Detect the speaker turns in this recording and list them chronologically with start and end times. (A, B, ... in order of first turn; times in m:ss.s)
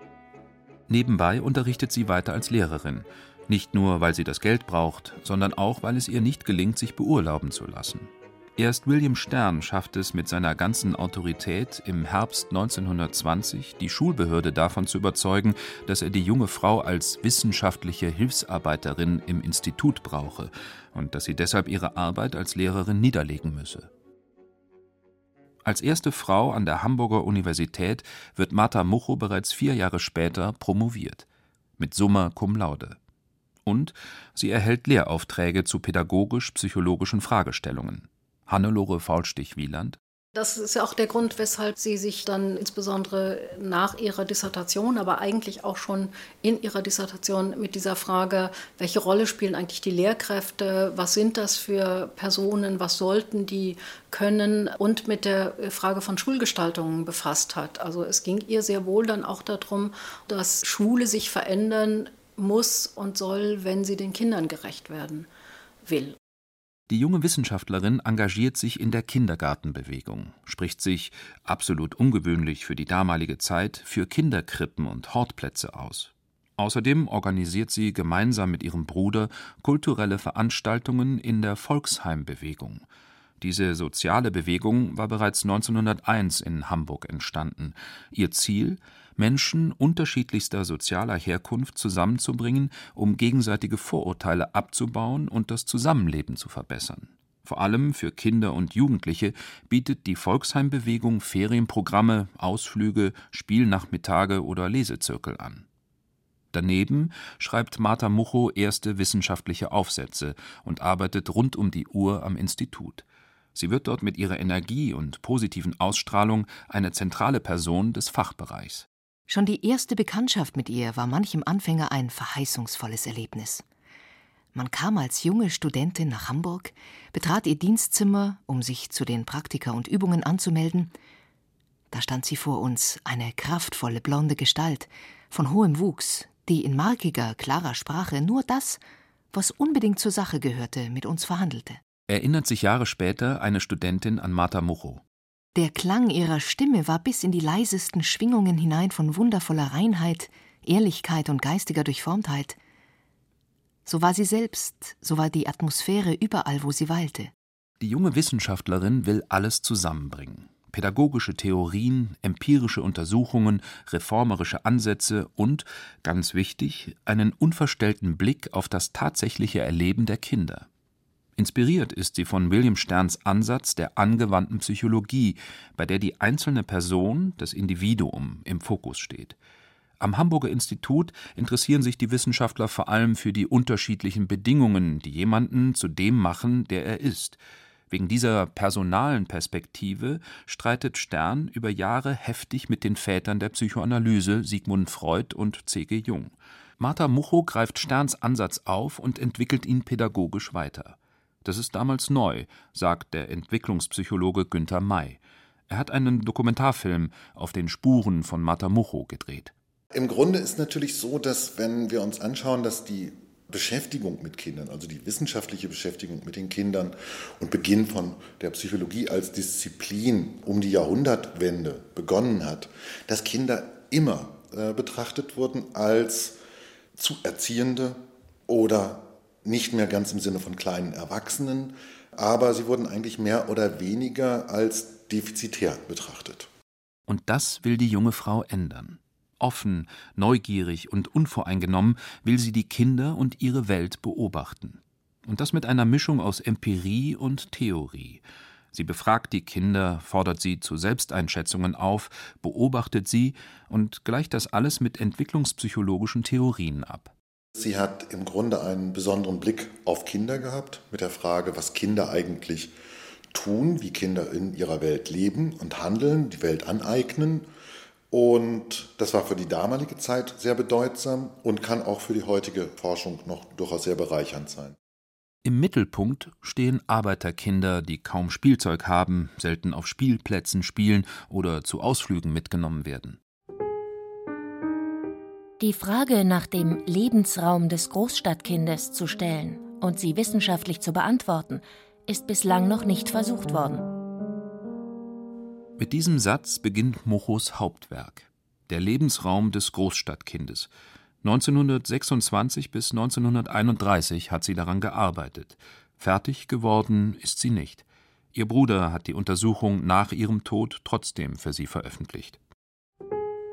0:00.9-0:23.9 A
0:25.6-0:31.3 A
0:31.8-0:33.0 A
0:33.7-0:40.0 A
0:40.4-1:05.3 B
1:05.8-1:06.2 B
1:06.9-1:22.8 A
1:23.4-1:45.6 A
1:46.5-1:58.9 A
1:59.3-2:03.6 C
2:04.5-2:10.9 C
2:11.9-2:18.8 C
2:19.3-2:21.8 C
2:22.1-2:25.0 A
2:25.6-2:32.6 C
2:33.9-2:37.3 C
2:37.8-2:50.7 A
2:51.4-2:59.4 A
3:00.0-3:29.5 A
3:29.9-3:46.4 D
3:47.0-3:56.5 D
3:57.1-4:17.1 A
4:17.6-4:22.7 D
4:23.3-4:27.5 D
4:28.1-4:34.8 D
4:35.4-4:43.2 A
4:45.6-4:53.9 E
4:55.8-5:00.7 A
5:01.2-5:12.4 A